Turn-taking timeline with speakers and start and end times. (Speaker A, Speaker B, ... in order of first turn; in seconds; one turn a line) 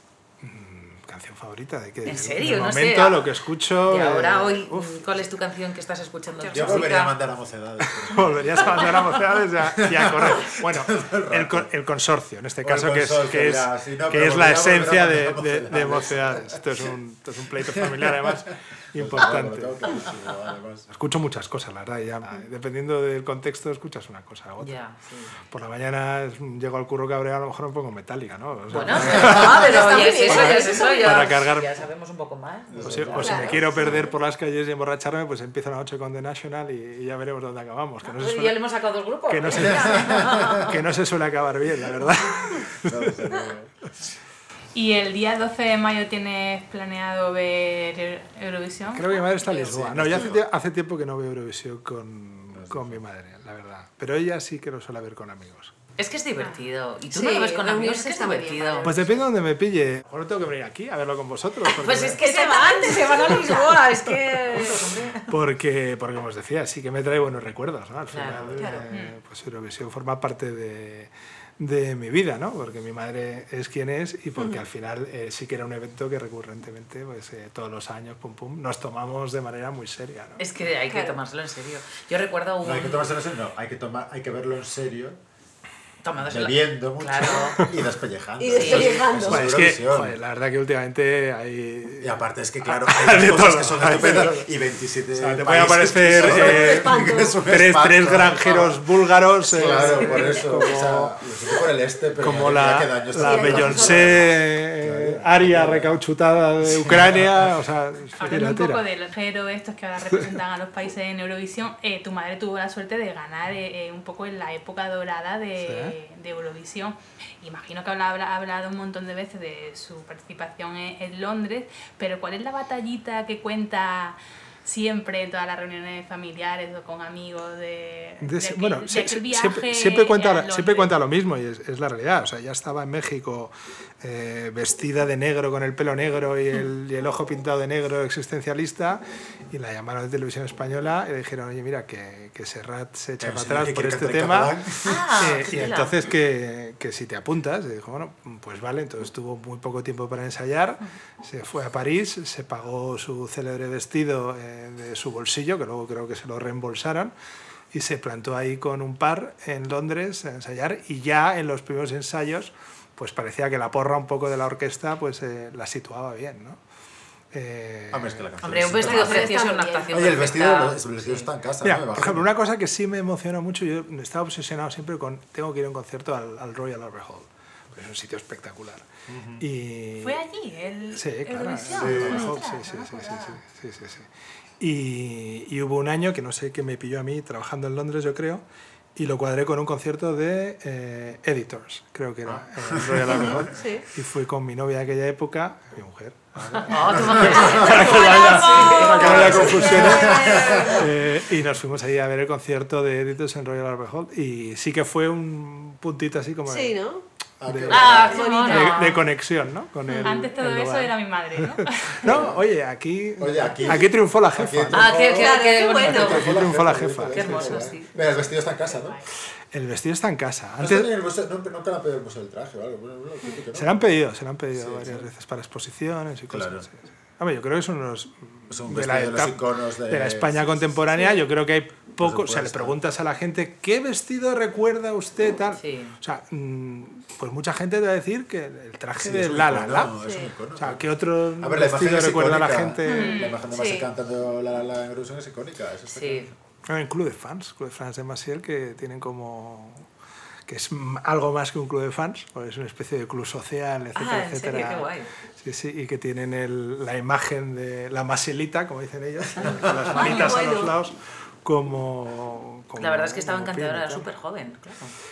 Speaker A: 0.4-5.1
Speaker B: 2.0-3.2
Speaker B: 3.9-7.2
Speaker C: 6.5-11.7
Speaker A: 8.1-20.0
Speaker C: 12.6-16.9
Speaker C: 17.7-20.9
Speaker A: 20.9-24.8
Speaker B: 24.6-25.3
Speaker A: 25.4-31.7
Speaker B: 28.7-33.6
Speaker C: 28.7-29.4
Speaker D: 29.0-31.4
Speaker C: 30.3-30.6
Speaker C: 32.7-34.1
Speaker A: 32.8-38.5
Speaker D: 33.2-34.1
Speaker B: 38.0-40.8
Speaker A: 39.3-43.2
Speaker C: 39.5-40.7
Speaker C: 42.8-44.1
Speaker E: 44.7-49.4
Speaker A: 48.9-55.8
Speaker C: 49.5-50.4
Speaker C: 52.5-53.0
Speaker B: 56.0-58.9
Speaker D: 56.4-59.3
Speaker A: 58.8-62.2
Speaker B: 61.8-65.3
Speaker D: 62.2-65.0
Speaker A: 65.2-80.4
Speaker B: 68.1-68.6
Speaker C: 68.3-68.5
Speaker D: 68.6-68.9
Speaker E: 68.9-69.1
Speaker D: 74.4-74.6
Speaker B: 80.4-83.1
Speaker D: 80.9-81.2
Speaker C: 82.6-85.2
Speaker B: 86.0-87.6
Speaker C: 86.2-90.2
Speaker D: 87.2-87.5
Speaker D: 88.4-89.5
Speaker B: 88.5-89.1
Speaker A: 89.2-94.5
Speaker C: 92.0-98.8
Speaker A: 95.1-101.2
Speaker D: 96.1-97.4
Speaker C: 99.4-106.0
Speaker D: 99.6-100.3
Speaker B: 99.8-100.3
Speaker A: 102.2-108.8
Speaker D: 103.1-104.3
Speaker C: 106.6-107.5
Speaker E: 108.1-131.0
Speaker A: 115.6-116.0
Speaker A: 128.2-144.6
Speaker C: 143.2-145.7
Speaker B: 144.8-145.9
Speaker A: 145.1-157.1
Speaker A: 157.7-166.6
Speaker A: 167.3-168.3
Speaker C: 167.9-172.3
Speaker B: 168.4-171.3
Speaker D: 168.8-170.2
Speaker A: 171.6-178.9
Speaker C: 179.1-179.4
Speaker A: 179.4-180.2
Speaker E: 180.0-183.4
Speaker A: 180.9-184.1
Speaker C: 181.7-182.3
Speaker A: 184.6-188.4
Speaker A: 188.9-206.8
Speaker C: 192.2-193.5
Speaker D: 193.3-193.8
Speaker C: 196.4-197.9
Speaker B: 196.7-200.7
Speaker D: 197.5-200.9
Speaker C: 198.7-200.9
Speaker D: 206.4-207.0
Speaker C: 207.4-208.3
Speaker A: 207.4-215.1
Speaker B: 207.7-208.9
Speaker D: 207.8-209.0
Speaker E: 208.1-208.8
Speaker D: 209.9-210.2
Speaker E: 210.0-212.0
Speaker C: 212.0-212.4
Speaker C: 213.2-219.0
Speaker B: 214.7-216.3
Speaker D: 215.0-216.3
Speaker A: 215.9-217.7
Speaker B: 217.1-217.9
Speaker D: 218.7-219.0
Speaker A: 219.5-220.9
Speaker C: 220.6-223.9
Speaker A: 223.5-239.9
Speaker C: 224.5-225.1
Speaker C: 226.3-226.7
Speaker C: 228.5-230.8
Speaker D: 230.9-231.2
Speaker C: 232.0-232.8
Speaker B: 235.6-236.0
Speaker C: 239.0-240.8
Speaker D: 240.0-240.3
Speaker A: 240.5-243.3
Speaker C: 241.4-246.3
Speaker D: 242.8-243.9
Speaker E: 242.9-243.3
Speaker B: 245.9-246.3
Speaker A: 246.6-249.9
Speaker A: 250.5-264.1
Speaker B: 253.9-255.1
Speaker C: 259.4-260.1
Speaker D: 259.9-260.8
Speaker B: 262.8-264.9